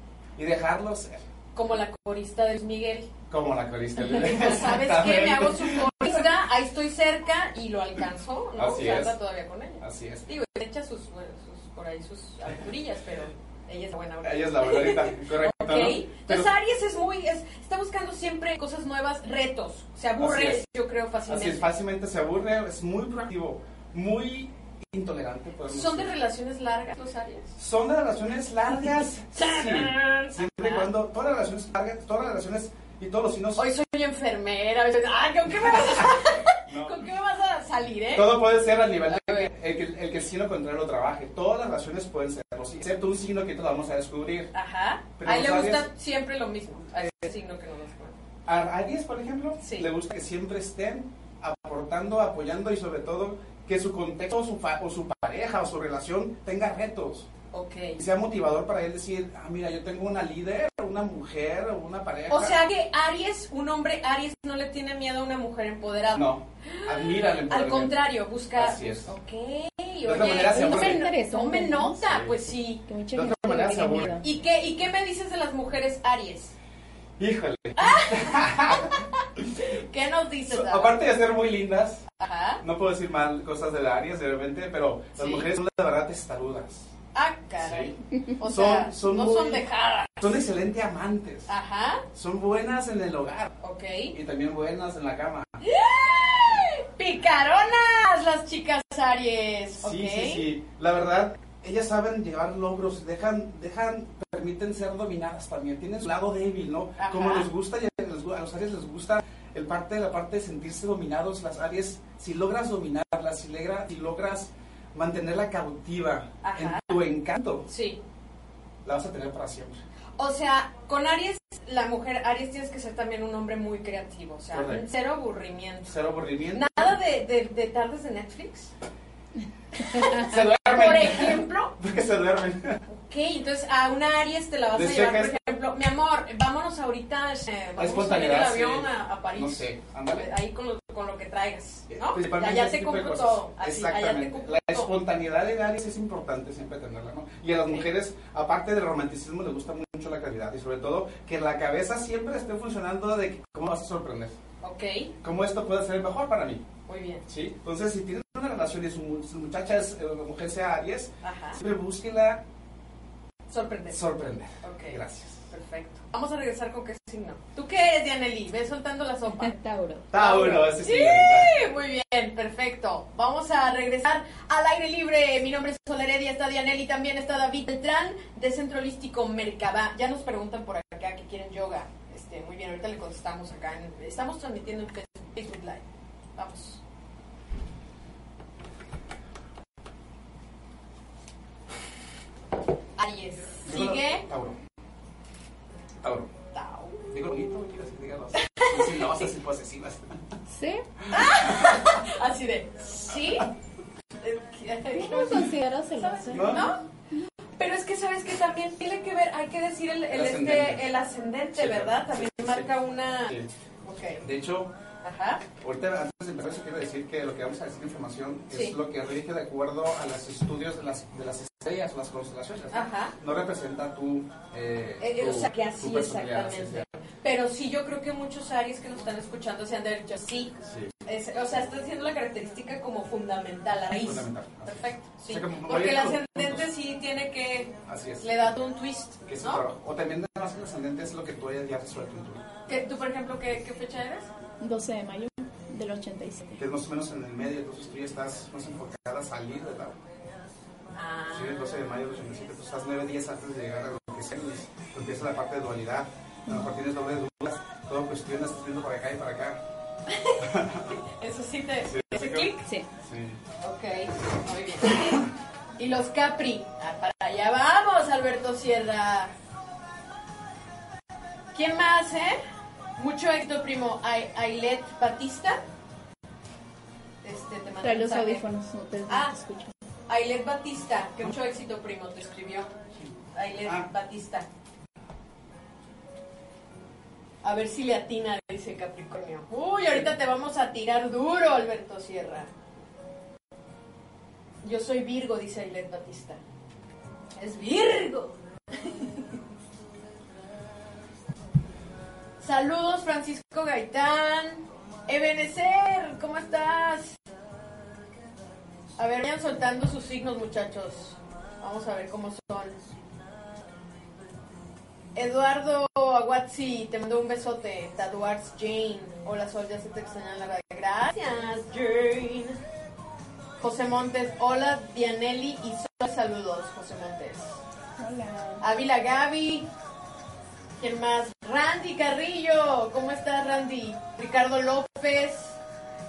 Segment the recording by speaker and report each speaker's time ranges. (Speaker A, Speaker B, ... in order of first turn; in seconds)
Speaker A: 0.4-1.3, 3.3-6.3, 8.6-9.2, 9.8-10.3, 14.2-16.5, 20.2-20.7, 21.3-26.1, 27.6-33.7, 35.6-37.1, 38.1-44.5, 45.2-45.9, 48.5-57.3, 58.0-62.6, 66.2-69.2, 70.0-71.1, 72.0-72.4, 73.1-74.2, 77.2-79.5, 80.5-82.0, 82.6-86.9, 87.6-89.6, 90.2-91.5, 92.1-93.5, 94.1-95.6, 99.8-117.7, 118.8-119.8, 124.5-124.9, 125.9-126.9, 130.0-132.8, 134.7-135.6, 137.8-140.3, 141.9-154.4, 155.2-156.7, 157.3-162.4, 163.9-165.4, 170.1-171.5, 193.7-194.6, 196.0-196.3, 197.1-200.2, 201.1-201.9, 206.3-206.7, 210.1-210.8, 211.6-212.7, 214.2-214.7, 215.6-226.9, 230.6-230.9, 233.9-236.7, 237.9-238.4, 239.3-242.5, 246.6-250.0, 251.3-259.6, 260.4-261.0, 261.9-263.4, 283.6-283.9
Speaker B: 1.6-3.1, 4.2-21.7, 25.7-27.6, 29.3-30.9, 33.6-39.5, 44.5-48.2, 49.6-49.9, 57.5-58.0, 62.3-72.8, 74.2-76.5, 77.8-81.0, 82.2-82.6, 85.2-85.5, 87.1-90.3, 91.5-92.1, 93.6-94.2, 95.6-100.5, 107.0-107.5, 116.4-117.0, 117.7-118.0, 120.2-126.0, 126.5-128.7, 129.8-131.8, 132.9-144.9, 154.6-155.1, 156.9-157.2, 161.2-161.6, 163.5-164.0, 164.6-169.6, 170.1-185.8, 186.4-186.8, 193.0-194.3, 196.5-197.2, 198.3-199.1, 201.1-203.5, 204.2-206.9, 207.6-214.2, 215.0-215.4, 218.5-218.8, 222.7-223.2, 225.0-239.6, 242.7-244.3, 250.9-251.8, 260.1-262.7, 263.6-265.3, 265.8-269.3, 271.5-272.4, 273.0-275.6, 277.2-278.5, 279.1-279.4, 280.1-282.7, 283.3-284.5, 287.4-292.5, 294.6-296.4, 297.4-299.2, 302.4-307.2, 309.0-312.8, 315.1-322.6, 323.6-327.6, 328.6-329.7, 330.8-335.6
Speaker C: 70.3-72.0, 72.9-74.2, 169.4-170.1, 200.5-200.8, 204.9-206.7, 244.6-246.6, 277.8-279.7, 328.0-328.6